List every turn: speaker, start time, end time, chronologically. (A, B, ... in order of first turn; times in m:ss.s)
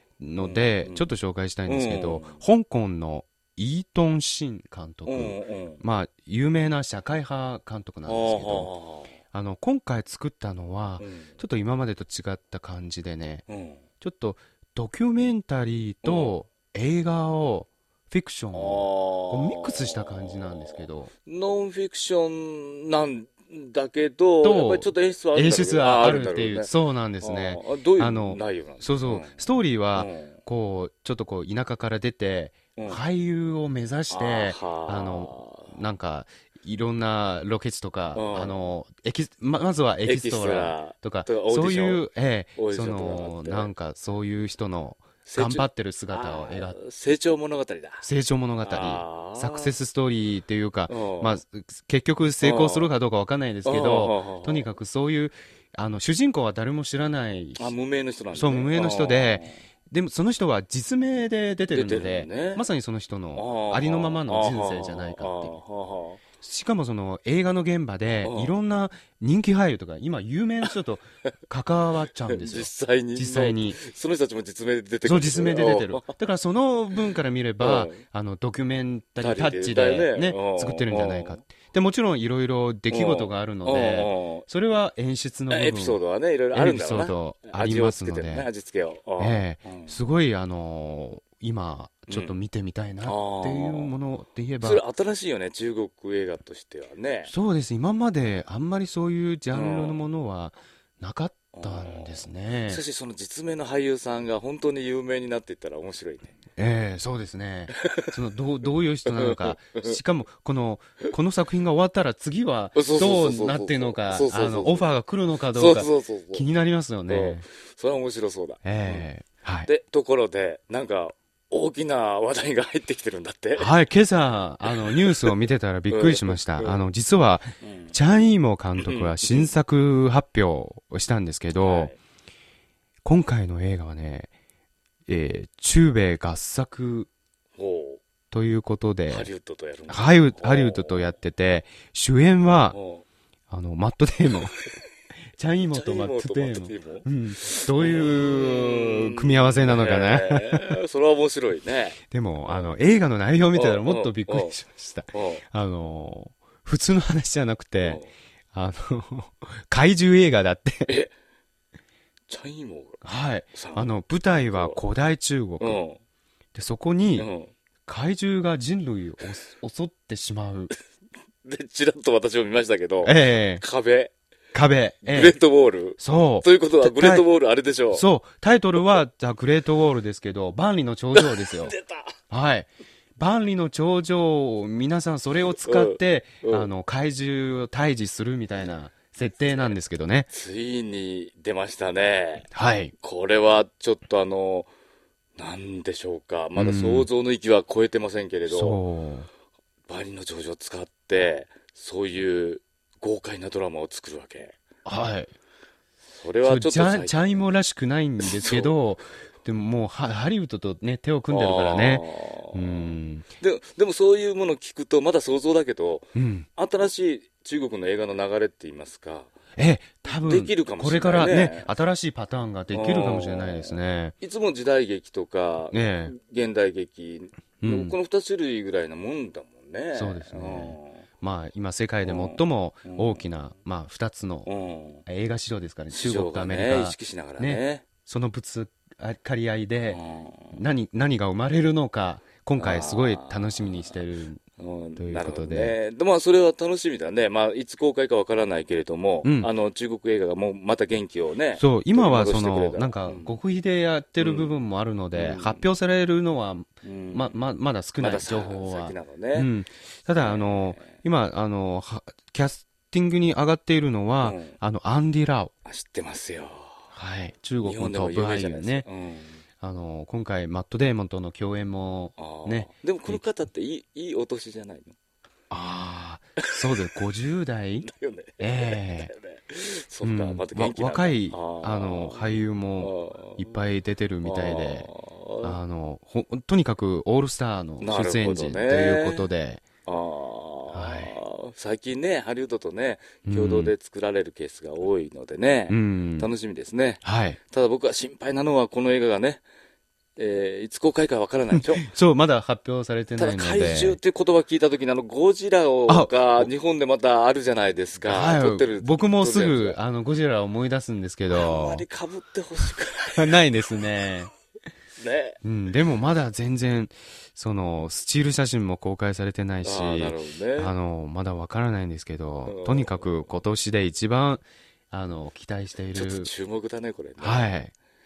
0:00.2-0:08.7 A
0:00.4-0:01.1 B
0:01.6-0:02.4 B
0:05.0-0:05.8 B
0:08.0-0:09.2 B
0:09.3-0:13.4 A
0:11.0-0:11.3 B
0:13.5-0:13.8 B
0:14.0-0:21.1 A
0:16.0-0:16.4 B
0:18.5-0:30.4 B
0:24.4-0:46.8 A
0:32.8-0:33.0 B
0:34.1-0:35.8 B
0:38.1-0:38.7 B
0:40.0-0:43.7 B
0:45.2-0:48.0 B
0:48.0-0:57.7 A
0:48.6-0:49.8 B
0:50.9-0:51.4 B
0:52.4-0:52.9 B
0:53.6-0:54.7 B
0:57.6-0:59.6 B
0:58.3-1:05.6 A
1:01.7-1:02.6 B
1:03.3-1:06.2 B
1:06.4-1:13.8 A
1:08.1-1:08.5 B
1:12.3-1:16.2 B
1:15.0-1:26.0 A
1:17.6-1:18.0 B
1:19.2-1:21.4 B
1:22.9-1:24.5 B
1:25.5-1:30.0 B
1:26.5-1:28.5 A
1:29.2-1:34.8 A
1:32.1-1:32.4 B
1:33.0-1:33.9 B
1:34.6-1:37.3 B
1:37.3-1:42.8 A
1:39.5-1:40.0 B
1:41.5-1:46.4 B
1:46.6-1:57.4 A
1:47.7-1:48.1 B
1:49.0-1:50.0 B
1:52.7-1:54.9 B
1:55.5-1:56.4 B
1:57.1-1:59.1 B
1:58.6-1:59.7 A
1:59.6-2:03.7 B
2:03.6-2:11.9 A
2:04.6-2:06.8 B
2:07.6-2:08.0 B
2:08.8-2:09.5 B
2:11.6-2:12.0 B
2:13.0-2:14.3 A
2:15.1-2:17.1 A
2:17.6-2:18.0 B
2:18.3-2:19.3 A
2:19.1-2:21.2 B
2:19.9-2:22.8 A
2:22.7-2:23.0 B
2:23.5-2:24.6 A
2:25.4-2:30.8 A
2:25.6-2:32.7 B
2:32.1-2:41.0 A
2:33.5-2:34.6 B
2:35.1-2:35.4 B
2:37.8-2:38.1 B
2:40.9-2:41.1 B
2:42.3-2:43.0 B
2:43.0-2:45.8 A
2:43.5-2:44.8 B
2:45.6-2:46.0 B
2:46.5-2:47.3 A
2:47.2-2:47.5 B
2:47.8-2:50.7 A
2:51.4-2:54.1 B
2:53.0-2:53.6 A
2:54.5-2:55.4 A
2:55.0-2:58.0 B
2:56.0-2:57.2 A
2:57.9-3:01.7 A
3:01.1-3:02.1 B
3:02.3-3:10.3 A
3:05.6-3:06.7 B
3:10.3-3:12.5 B
3:12.5-3:12.9 A
3:13.0-3:14.7 B
3:15.4-3:18.8 B
3:16.6-3:17.1 A
3:18.4-3:19.3 A
3:19.9-3:24.5 B
3:24.8-3:25.3 A
3:26.1-3:27.4 B
3:26.4-3:33.3 A
3:28.2-3:28.7 B
3:31.3-3:39.3 B
3:36.1-3:36.5 A
3:39.6-3:44.1 A
3:40.1-3:41.7 B
3:42.7-3:51.0 B
3:45.7-3:46.1 A
3:47.6-3:47.9 A
3:49.9-3:54.5 A
3:52.0-3:53.3 B
3:54.4-3:55.0 B
3:55.0-4:00.0 A
3:55.9-3:57.8 B
3:59.9-4:00.6 B
4:00.5-4:04.4 A
4:02.6-4:04.0 B
4:04.6-4:13.4 B
4:05.0-4:05.8 A
4:09.2-4:09.5 A
4:11.6-4:25.5 A
4:14.2-4:14.6 B
4:15.1-4:15.7 B
4:16.8-4:17.4 B
4:18.0-4:19.5 B
4:20.2-4:21.0 B
4:24.2-4:24.6 B
4:25.6-4:26.9 B
4:26.9-4:28.8 A
4:27.6-4:29.4 B
4:29.6-4:33.2 A
4:32.2-4:34.9 B
4:35.5-4:37.9 A
4:37.8-4:43.6 B
4:38.4-4:39.1 A
4:40.0-4:44.9 A
4:44.2-4:45.6 B
4:45.4-4:49.6 A
4:47.8-4:49.3 B
4:49.8-4:59.4 B
4:50.7-4:51.1 A
4:53.2-4:53.7 A
4:55.7-4:56.3 A
4:57.0-4:57.4 A
5:00.2-5:01.9 B
5:01.6-5:04.0 A
5:03.2-5:09.8 B
5:05.9-5:06.5 A
5:08.0-5:11.8 A
5:11.3-5:13.4 B
5:13.1-5:14.3 A
5:15.0-5:15.4 B
5:15.4-5:26.3 A
5:19.6-5:20.7 B
5:22.4-5:23.2 B
5:25.9-5:27.5 B
5:27.2-5:27.7 A